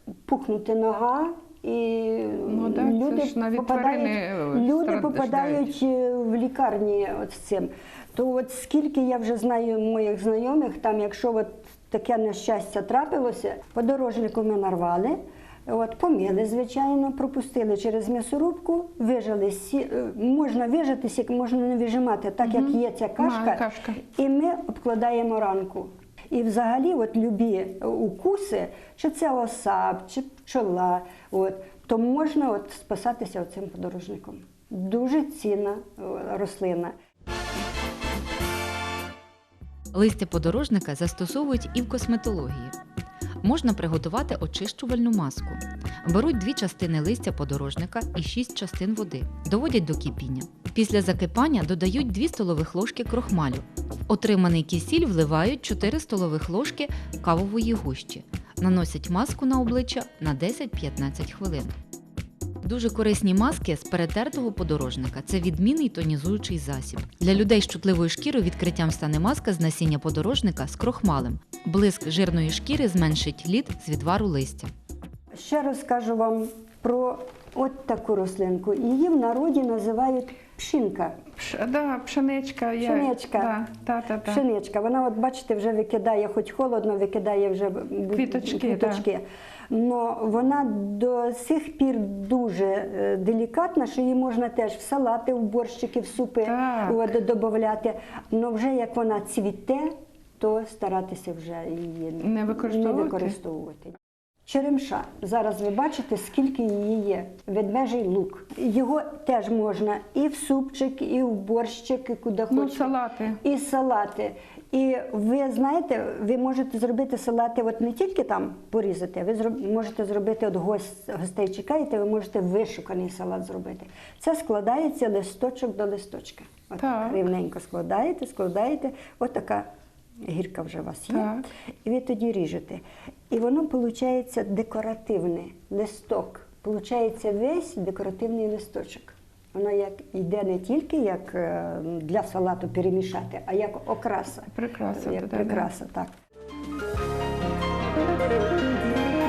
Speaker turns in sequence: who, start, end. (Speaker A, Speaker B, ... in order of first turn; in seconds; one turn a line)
Speaker A: 0.2-36.9
Speaker B: 2.5-5.7
Speaker B: 22.4-24.0
Speaker C: 39.9-42.7
Speaker C: 43.4-61.7
Speaker C: 62.6-74.7
Speaker A: 75.3-81.2
Speaker B: 81.3-84.4
Speaker A: 82.8-83.6
Speaker A: 84.2-129.7
Speaker B: 88.1-89.0
Speaker B: 96.4-97.1
Speaker B: 102.2-103.3
Speaker B: 112.5-113.4
Speaker B: 126.8-127.2
Speaker A: 130.2-146.1
Speaker B: 131.1-131.4
Speaker B: 144.5-145.7